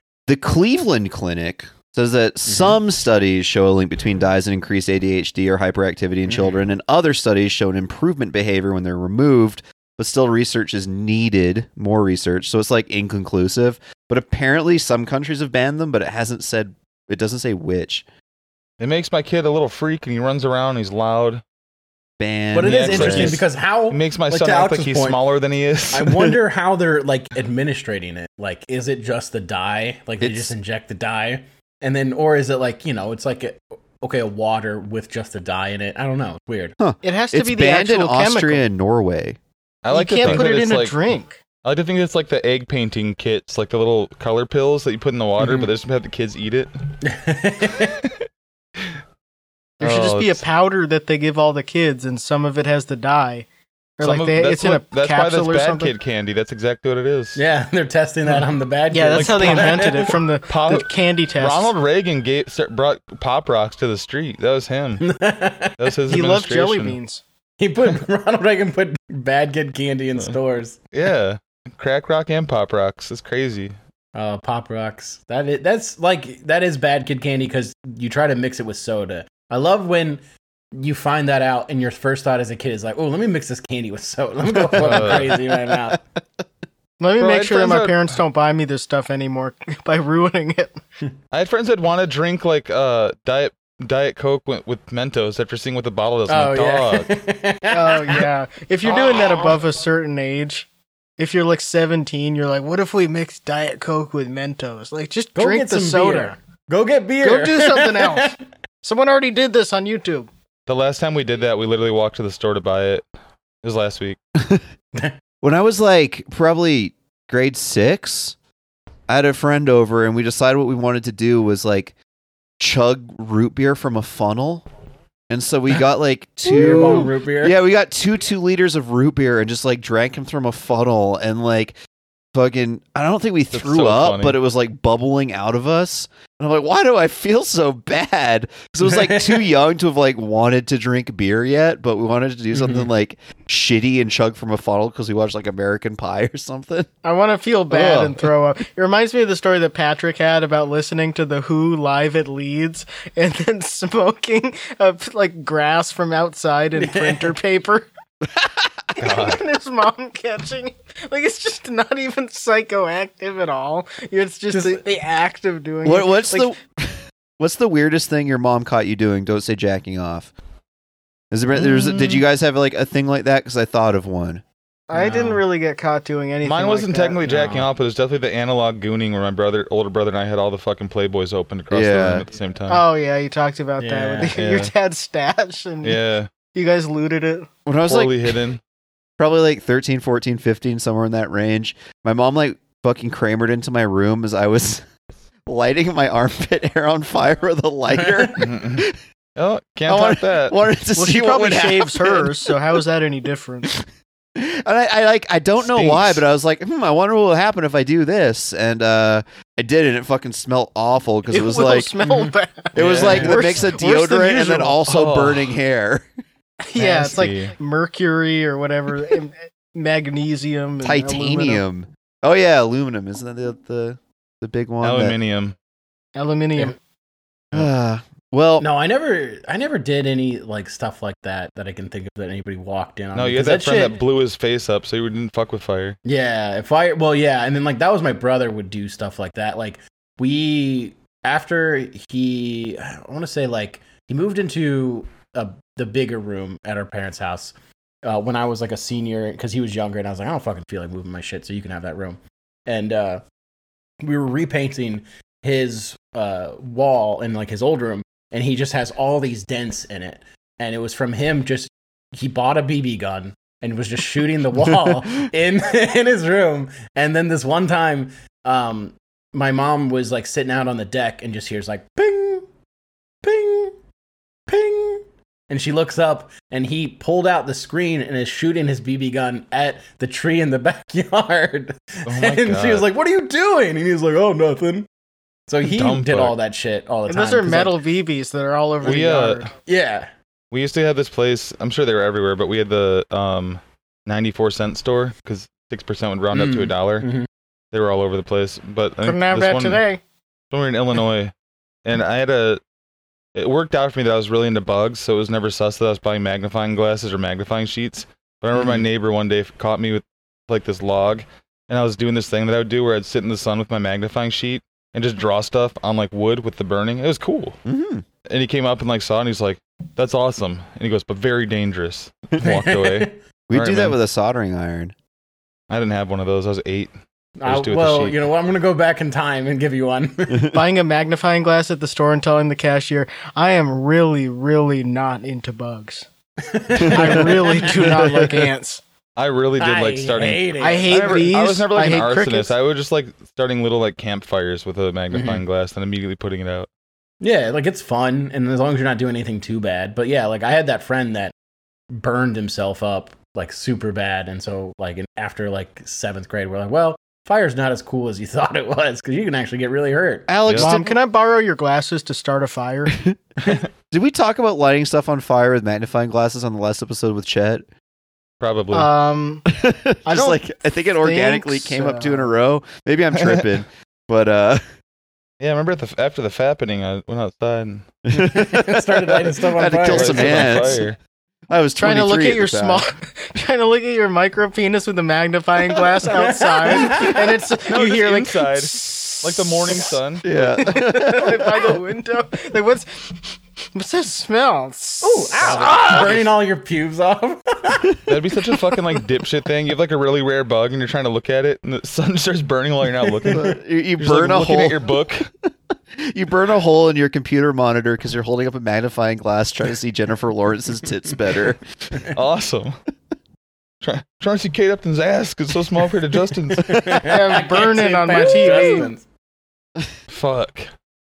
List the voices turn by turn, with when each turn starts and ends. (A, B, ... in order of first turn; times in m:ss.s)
0:00.3-0:18.0 A
0:02.5-0:02.8 B
0:06.3-0:06.6 B
0:18.8-0:21.4 C
0:22.2-0:23.4 A
0:22.5-0:25.2 B
0:22.6-0:26.3 C
0:25.9-0:36.8 B
0:30.2-0:30.5 A
0:36.8-0:39.4 A
0:37.0-0:38.7 D
0:39.8-0:41.0 C
0:39.9-0:41.4 D
0:41.6-0:46.7 C
0:45.4-0:45.7 B
0:47.0-0:48.0 B
0:49.8-0:53.5 D
0:49.8-0:50.4 C
0:54.0-0:55.9 D
0:54.0-0:57.4 C
0:57.4-1:00.2 B
0:58.9-1:01.7 D
0:59.2-1:05.0 C
1:05.0-1:05.9 B
1:05.8-1:07.0 C
1:06.1-1:07.2 D
1:07.6-1:10.9 B
1:10.9-1:13.8 C
1:14.1-1:20.2 B
1:20.7-1:26.0 B
1:24.8-1:25.4 C
1:24.9-1:26.0 A
1:27.0-1:30.8 D
1:27.2-1:28.0 C
1:31.3-1:37.1 C
1:36.3-1:38.3 B
1:37.7-1:46.4 D
1:38.8-1:39.6 B
1:45.4-1:48.4 B
1:47.2-1:50.3 D
1:50.7-1:53.0 C
1:53.6-1:54.2 C
1:55.4-1:58.4 A
1:59.1-2:01.9 A
2:02.6-2:04.6 A
2:05.3-2:11.8 A
2:06.4-2:07.6 B
2:12.3-2:26.9 A
2:13.5-2:14.4 C
2:18.8-2:19.5 B
2:22.5-2:22.9 B
2:27.0-2:37.9 D
2:27.7-2:28.3 A
2:36.8-2:37.4 B
2:39.0-2:46.5 D
2:39.0-2:39.4 C
2:44.5-2:44.8 B
2:45.8-2:50.3 A
2:51.3-2:54.4 A
2:51.6-2:52.2 C
2:54.9-2:57.2 D
2:55.0-2:55.4 C
2:56.4-3:02.8 C
2:57.2-2:57.7 B
3:01.7-3:02.2 A
3:02.7-3:06.0 D
3:03.8-3:04.4 B
3:04.4-3:04.7 C
3:05.8-3:06.3 C
3:06.5-3:07.5 D
3:07.7-3:08.4 A
3:07.8-3:08.6 C
3:09.2-3:14.9 A
3:15.5-3:19.0 A
3:17.9-3:18.5 B
3:18.4-3:20.6 C
3:19.9-3:22.6 A
3:21.0-3:23.7 D
3:24.4-3:32.0 A
3:25.7-3:26.2 C
3:31.3-3:34.8 D
3:32.8-3:36.1 A
3:32.8-3:33.4 C
3:33.0-3:33.3 B
3:34.9-3:35.6 C
3:36.7-3:41.6 D
3:36.8-3:37.5 C
3:40.8-3:45.2 A
3:44.8-3:45.6 C
3:46.2-3:46.8 D
3:47.5-3:48.7 A
3:48.6-3:54.0 B
3:53.2-3:56.0 C
3:56.0-4:13.2 B
4:14.0-4:32.5 B
4:33.2-4:33.8 B
4:34.5-4:44.9 B
4:42.1-4:42.9 C
4:45.5-4:47.8 B
4:45.6-4:46.4 C
4:47.1-4:49.5 D
4:48.8-4:49.5 C
4:49.7-4:50.1 B
4:50.5-4:57.1 C
4:56.3-4:57.3 B
4:57.7-4:59.8 C
4:59.0-5:00.0 D
5:00.5-5:01.3 C
5:01.8-5:02.6 C
5:03.4-5:17.6 C
5:08.6-5:08.8 B
5:17.6-5:18.0 A
5:18.3-5:24.0 C
5:22.4-5:23.2 B
5:23.5-5:24.9 A
5:25.7-5:26.9 C
5:27.4-5:30.6 B
5:27.4-5:28.2 C
5:30.5-5:36.1 D
5:36.4-5:37.9 B
5:36.8-5:37.1 A
5:36.8-5:38.8 D
5:37.8-5:38.5 A
5:39.2-5:46.7 C
5:39.6-5:41.4 B
5:40.6-5:42.5 D
5:45.1-5:45.4 B
5:47.2-5:51.3 B
5:51.9-6:00.3 B
6:00.3-6:01.0 A
6:00.6-6:03.0 D
6:02.9-6:07.7 A
6:08.4-6:08.9 C
6:08.7-6:09.5 D
6:09.5-6:14.6 A
6:10.1-6:12.3 D
6:13.2-6:13.6 C
6:15.4-6:17.9 C
6:18.1-6:20.8 A
6:18.1-6:20.8 B
6:19.9-6:21.0 C
6:21.5-6:22.8 A
6:21.8-6:29.9 D
6:26.1-6:27.3 B
6:27.7-6:30.5 C
6:30.2-6:31.7 A
6:30.6-6:35.6 D
6:35.0-6:38.0 B
6:35.4-6:36.3 C
6:38.1-6:45.3 C
6:43.3-6:44.9 A
6:45.9-6:51.6 A
6:52.1-6:52.8 C
6:53.8-6:56.9 C
6:56.5-6:59.0 B
6:57.0-6:58.9 D
7:00.1-7:00.7 C